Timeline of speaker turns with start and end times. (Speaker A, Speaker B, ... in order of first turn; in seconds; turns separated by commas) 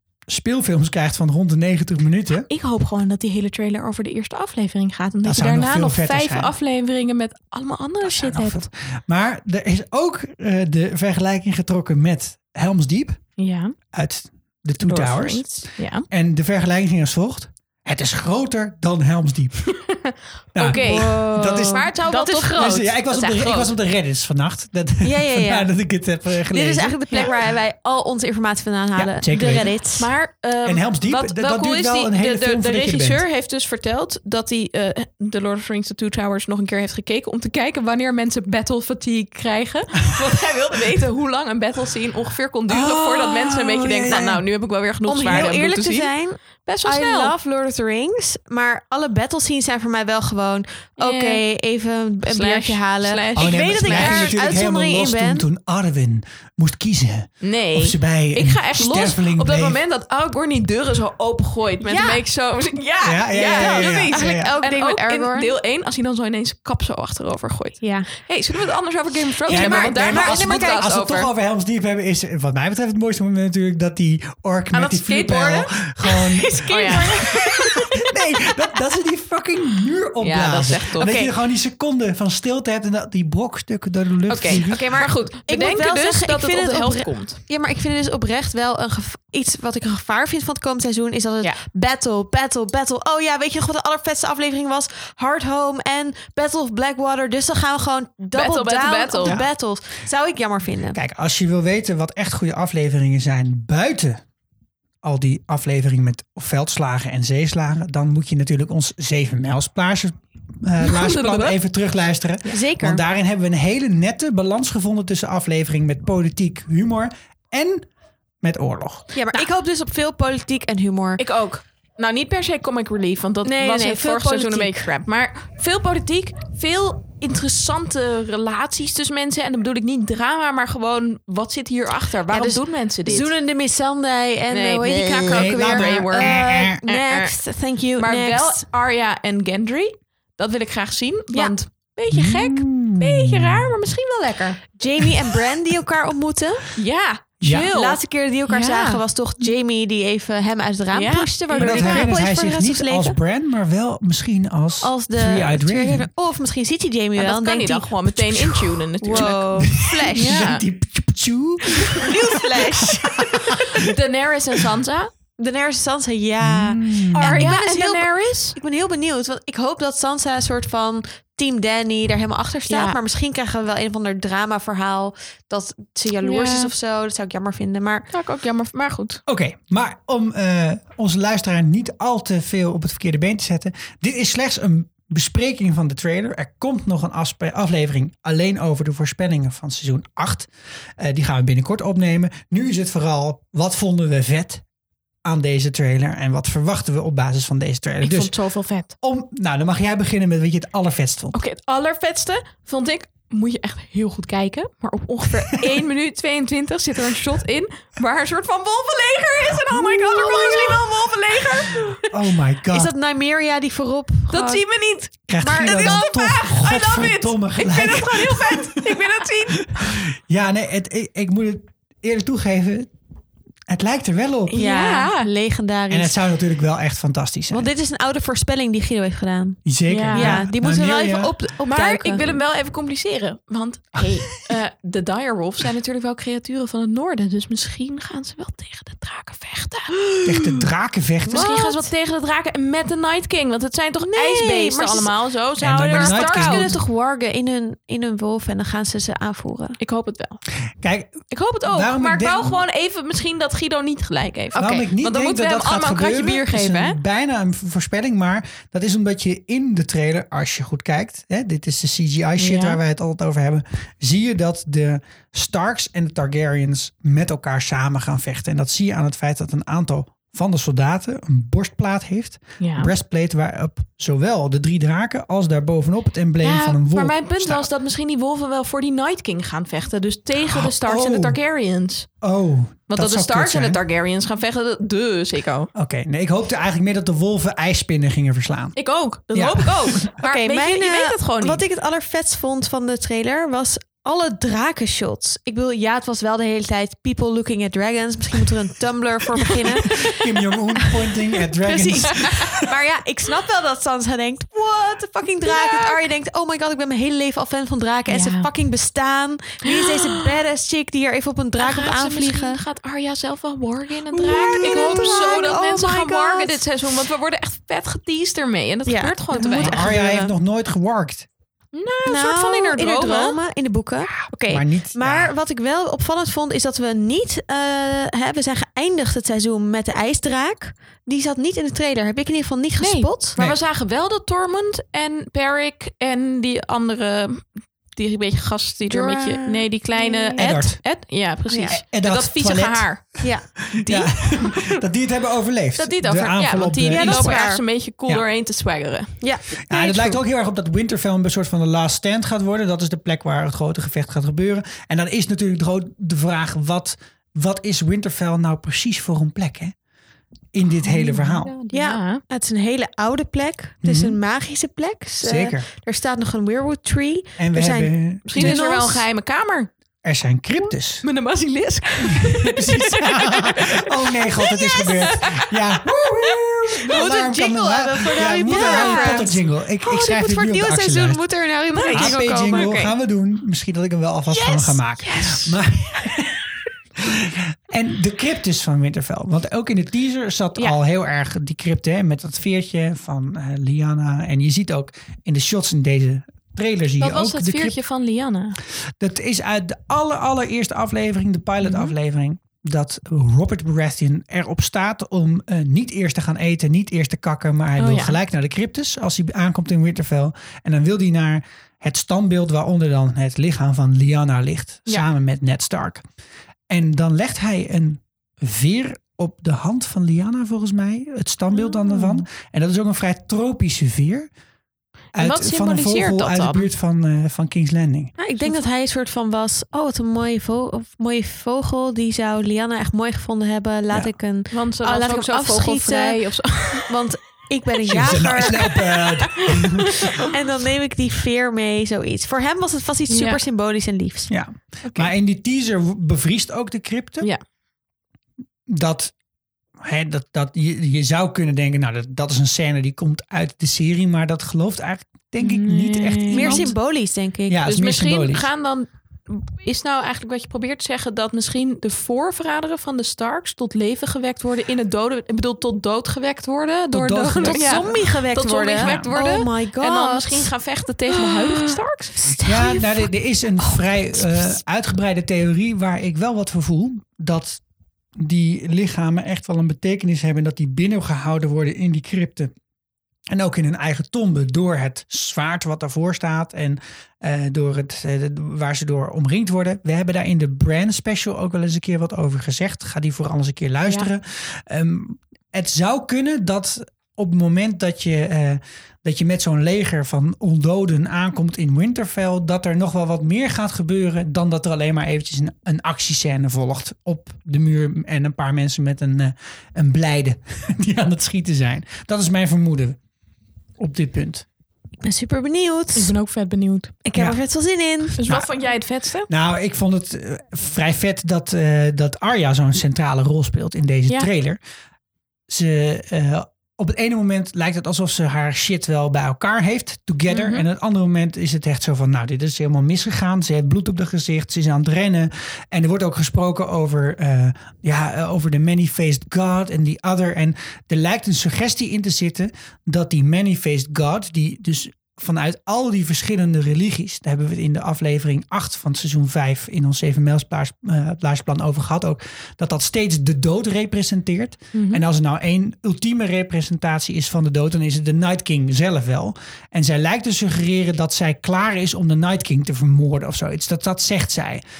Speaker A: 0.3-2.5, Speaker B: 2.5-8.7, Speaker A: 5.2-6.5, Speaker A: 8.0-13.2, Speaker B: 13.4-13.7, Speaker A: 13.9-15.5, Speaker B: 14.8-16.1, Speaker A: 16.1-19.7, Speaker B: 19.7-23.7, Speaker A: 20.5-21.9, Speaker C: 20.6-22.7, Speaker A: 22.6-27.3, Speaker C: 25.0-25.7, Speaker C: 26.5-30.1, Speaker A: 28.9-29.7, Speaker B: 29.9-46.1, Speaker A: 30.6-33.2, Speaker A: 42.7-44.4, Speaker C: 45.1-55.5, Speaker B: 46.6-47.3, Speaker B: 51.0-51.4, Speaker B: 52.3-54.3, Speaker A: 53.4-59.8, Speaker B: 57.4-71.3, Speaker C: 61.8-62.2, Speaker A: 63.0-64.5, Speaker C: 63.4-65.5, Speaker C: 67.8-68.1, Speaker C: 69.4-70.9, Speaker A: 69.5-77.2, Speaker B: 74.7-75.7, Speaker C: 76.3-77.9, Speaker B: 76.7-77.7, Speaker A: 77.9-85.0, Speaker B: 80.2-81.3, Speaker C: 81.0-81.3, Speaker B: 84.3-87.4, Speaker C: 84.4-101.0, Speaker B: 98.3-99.4, Speaker A: 99.2-99.5, Speaker A: 100.9-104.2, Speaker A: 105.0-117.9, Speaker B: 110.8-111.5, Speaker C: 112.5-113.0, Speaker A: 118.4-119.1, Speaker C: 119.1-121.2, Speaker B: 121.2-133.3, Speaker C: 123.4-124.9, Speaker C: 132.3-138.6, Speaker B: 134.5-137.3, Speaker A: 135.2-136.8, Speaker B: 138.0-144.6, Speaker A: 142.1-143.7, Speaker C: 144.7-146.7, Speaker B: 146.8-149.0, Speaker A: 147.4-147.7, Speaker C: 147.5-153.2, Speaker B: 150.9-152.1, Speaker A: 151.6-156.1, Speaker C: 154.8-157.9, Speaker B: 157.2-160.6, Speaker C: 159.0-160.4, Speaker A: 159.1-163.9, Speaker C: 161.9-163.4, Speaker B: 163.5-165.1, Speaker C: 165.4-178.1, Speaker A: 166.4-167.4, Speaker B: 167.1-168.6, Speaker B: 172.7-173.0, Speaker B: 176.2-176.7, Speaker B: 178.1-179.2, Speaker A: 179.3-194.6, Speaker A: 195.2-198.3, Speaker B: 198.0-198.9, Speaker A: 199.0-201.4, Speaker B: 201.3-212.1, Speaker A: 209.8-210.7, Speaker C: 210.2-210.5, Speaker A: 211.9-212.9, Speaker C: 212.7-214.6, Speaker B: 214.3-220.0, Speaker A: 215.3-222.9, Speaker C: 215.4-216.1, Speaker A: 223.7-224.6, Speaker B: 224.5-225.3, Speaker C: 224.5-226.1, Speaker A: 225.9-227.7, Speaker C: 227.5-232.4, Speaker A: 229.6-231.3, Speaker B: 229.9-230.4, Speaker B: 231.6-240.7, Speaker A: 240.2-241.5, Speaker B: 241.3-246.7, Speaker C: 241.3-241.9, Speaker C: 244.0-245.1, Speaker A: 245.6-246.7, Speaker C: 245.9-249.8, Speaker B: 249.8-250.4, Speaker A: 250.8-252.6, Speaker B: 251.3-257.0, Speaker A: 254.5-277.7, Speaker B: 262.4-262.8, Speaker B: 272.6-272.9, Speaker B: 276.4-282.1, Speaker A: 280.4-281.4, Speaker A: 282.2-283.8, Speaker B: 282.9-285.7, Speaker A: 285.7-288.8, Speaker B: 288.8-291.6, Speaker A: 289.3-290.1, Speaker C: 290.2-300.1, Speaker A: 299.9-302.7, Speaker C: 301.5-312.6, Speaker B: 305.4-306.0, Speaker B: 308.1-308.5, Speaker B: 309.6-310.3, Speaker B: 311.6-319.9, Speaker A: 314.1-315.2, Speaker C: 314.2-316.6, Speaker C: 318.9-320.3, Speaker A: 319.3-321.3, Speaker B: 321.7-323.4, Speaker C: 322.1-333.4, Speaker A: 324.1-325.3, Speaker B: 332.8-344.8, Speaker C: 338.9-340.5, Speaker A: 340.4-340.8, Speaker C: 341.5-341.8, Speaker A: 341.7-343.1, Speaker C: 343.2-343.5, Speaker A: 343.7-347.4, Speaker B: 345.8-349.1, Speaker C: 346.9-347.6, Speaker C: 349.2-350.2, Speaker A: 349.7-359.7, Speaker A: 360.5-361.6, Speaker B: 360.8-362.2, Speaker C: 361.7-369.1, Speaker A: 363.8-364.2, Speaker A: 365.2-365.6, Speaker A: 367.4-368.6, Speaker B: 368.3-369.7, Speaker A: 370.0-371.0, Speaker B: 371.0-377.2, Speaker A: 372.0-381.2, Speaker C: 376.9-382.9, Speaker B: 378.2-379.3, Speaker B: 381.7-382.7, Speaker A: 381.9-386.4, Speaker C: 384.3-384.8, Speaker B: 385.0-385.6, Speaker A: 387.0-397.8, Speaker B: 397.0-398.6, Speaker A: 399.0-416.0, Speaker B: 401.6-401.9, Speaker B: 407.8-408.2, Speaker A: 416.7-424.3, Speaker B: 421.6-422.2, Speaker A: 425.1-428.1, Speaker B: 425.1-426.7, Speaker C: 428.2-436.2, Speaker B: 434.5-437.0, Speaker C: 436.8-439.0, Speaker A: 437.9-440.0, Speaker B: 439.5-440.3, Speaker C: 440.1-444.3, Speaker B: 443.1-443.4, Speaker A: 444.3-447.3, Speaker A: 448.7-449.1, Speaker A: 449.8-456.7, Speaker B: 455.4-456.7, Speaker C: 456.3-457.6, Speaker A: 457.5-458.5, Speaker B: 457.6-472.2, Speaker A: 466.9-468.0, Speaker C: 467.4-470.5, Speaker A: 468.8-469.1, Speaker C: 471.1-473.1, Speaker A: 472.4-477.6, Speaker C: 473.6-474.5, Speaker A: 478.2-482.5, Speaker A: 483.3-513.0, Speaker A: 513.8-514.5, Speaker C: 515.0-516.1, Speaker B: 515.9-517.0, Speaker C: 517.0-518.2, Speaker B: 518.2-519.3, Speaker A: 518.2-518.5, Speaker A: 519.3-524.6, Speaker A: 525.5-564.6, Speaker B: 530.3-530.6, Speaker B: 554.7-555.0